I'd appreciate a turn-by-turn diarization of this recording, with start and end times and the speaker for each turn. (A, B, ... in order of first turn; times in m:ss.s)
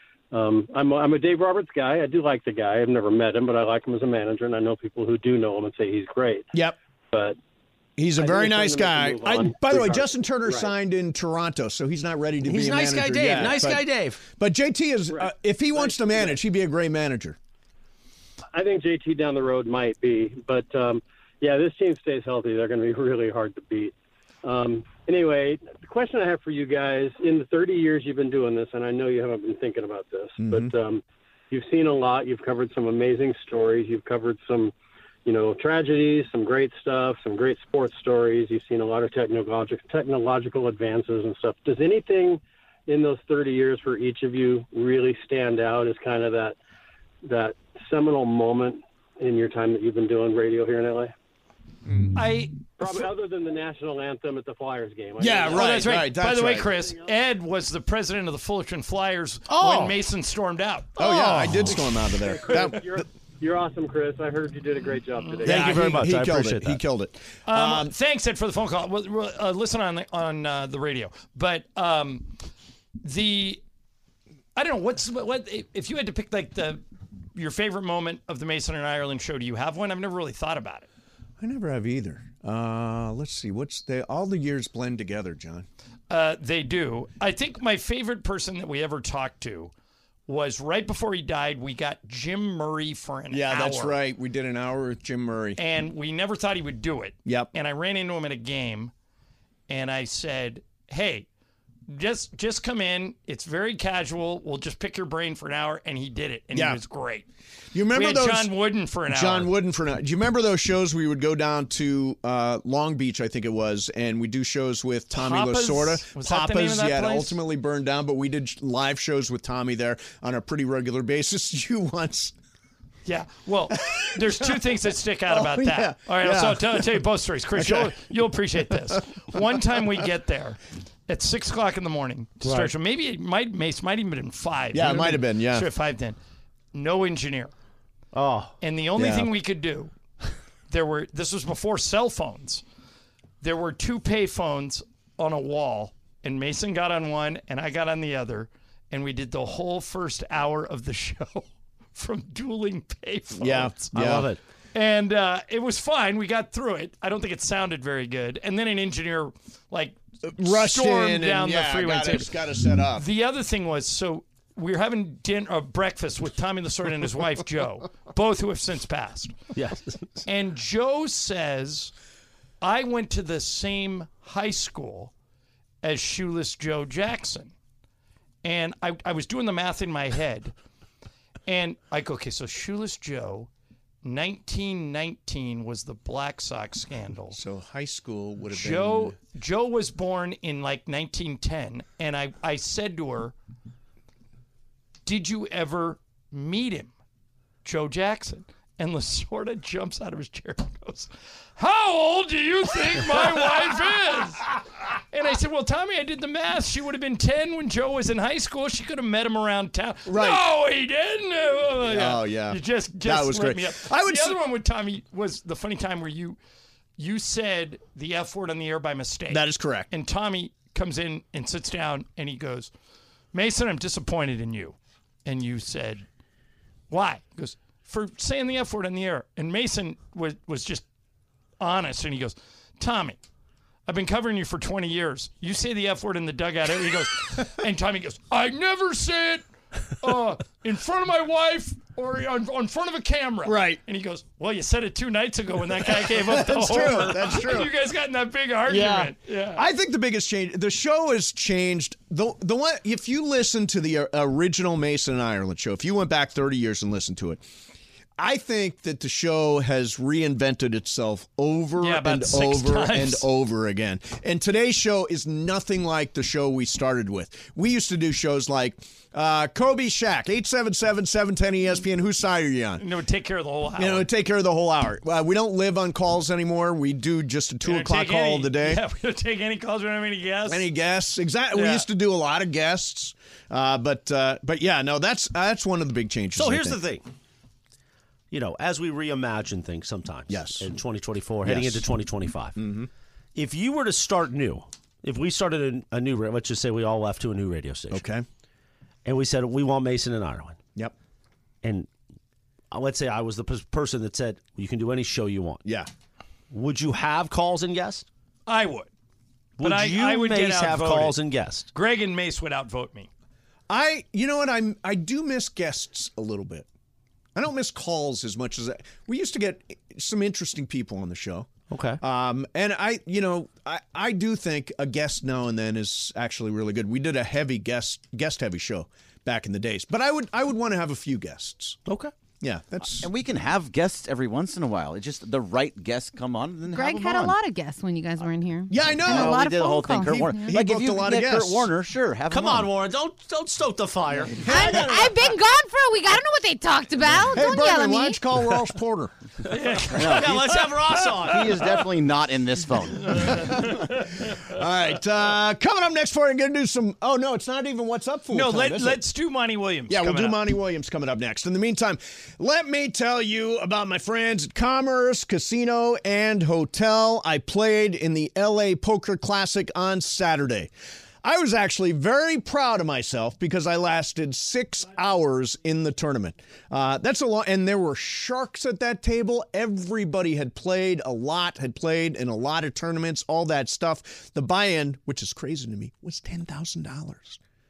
0:00.3-0:06.5 A
0:07.1-0:07.4 A
0:08.0-0:17.4 B
0:08.2-0:10.7 A
0:12.4-0:14.2 C
0:15.1-0:16.4 A
0:18.5-0:34.7 A
0:30.4-0:30.7 B
0:35.2-0:46.6 A
0:47.2-0:51.1 A
0:52.1-0:52.7 D
0:52.8-0:55.8 A
0:55.2-0:56.7 B
0:55.5-1:01.7 D
0:59.5-1:00.0 C
1:01.0-1:03.0 B
1:01.1-1:01.8 C
1:02.1-1:05.8 A
1:05.4-1:06.8 C
1:05.4-1:07.9 B
1:07.5-1:12.3 D
1:13.0-1:13.6 D
1:14.6-1:16.8 D
1:17.3-1:20.9 D
1:21.4-1:25.6 B
1:26.1-1:29.7 D
1:30.3-1:34.0 D
1:33.3-1:35.6 B
1:35.6-1:38.9 D
1:37.2-1:37.5 B
1:39.7-1:41.3 D
1:41.9-1:47.3 D
1:46.5-1:46.8 B
1:47.7-2:02.3 B
1:47.9-1:49.5 D
1:55.1-1:57.4 D
2:03.0-2:16.2 D
2:03.7-2:04.5 B
2:05.3-2:07.0 B
2:07.5-2:08.1 B
2:12.4-2:12.7 C
2:14.7-2:15.7 B
2:16.7-2:17.5 D
2:18.1-2:18.5 C
2:18.6-2:19.9 D
2:19.0-2:19.3 B
2:20.7-2:22.6 D
2:23.4-2:33.9 D
2:33.4-2:34.3 B
2:33.9-2:34.4 C
2:34.7-2:42.4 D
2:40.2-2:43.0 B
2:42.9-2:49.4 D
2:49.6-2:50.2 C
2:50.2-2:51.9 D
2:52.6-2:55.1 D
2:55.8-2:57.5 D
2:58.4-3:00.5 D
3:01.4-3:03.5 D
3:04.0-3:07.4 D
3:07.3-3:09.2 B
3:08.5-3:13.3 D
3:15.0-3:16.9 D
3:17.6-3:24.5 D
3:25.1-3:36.4 D
3:30.1-3:30.4 B
3:31.8-3:34.4 B
3:37.0-3:42.7 D
3:39.3-3:39.9 B
3:43.3-3:46.0 D
3:46.9-3:50.8 D
3:51.6-3:53.2 D
3:53.9-3:59.4 D
4:00.0-4:09.6 D
4:03.4-4:03.8 B
4:06.0-4:07.7 B
4:08.7-4:17.4 B
4:18.2-4:32.8 B
4:21.8-4:23.3 D
4:32.8-4:34.1 D
4:33.8-4:38.8 B
4:37.6-4:40.7 D
4:40.4-4:46.8 B
4:41.5-4:41.9 D
4:46.3-4:47.0 C
4:48.3-4:52.6 C
4:50.3-4:50.7 B
4:51.4-4:51.8 B
4:52.6-4:52.9 B
4:53.3-4:58.0 C
4:57.9-4:58.2 B
4:59.0-5:00.6 C
5:01.6-5:01.9 C
5:02.7-5:05.6 C
5:06.5-5:08.0 C
5:08.4-5:08.9 D
5:09.6-5:11.7 C
5:09.6-5:11.2 D
5:11.7-5:13.1 D
5:13.7-5:16.6 B
5:17.3-5:21.5 B
5:21.7-5:22.0 C
5:22.0-5:31.8 B
5:31.9-5:32.1 C
5:32.4-5:33.1 B
5:33.0-5:37.4 E
5:36.7-5:40.5 F
5:38.7-5:39.4 B
5:39.0-5:42.7 E
5:40.4-5:41.7 B
5:42.3-5:44.4 C
5:44.3-5:45.2 B
5:44.5-5:48.2 F
5:47.3-5:49.1 B
5:49.5-5:50.9 D
5:50.0-5:50.4 E
5:50.0-5:51.6 C
5:51.3-5:53.1 E
5:53.1-5:53.7 D
5:53.4-5:53.6 B
5:54.4-5:59.0 B
5:58.3-6:00.4 D
5:59.9-6:10.7 B
6:11.2-6:27.4 B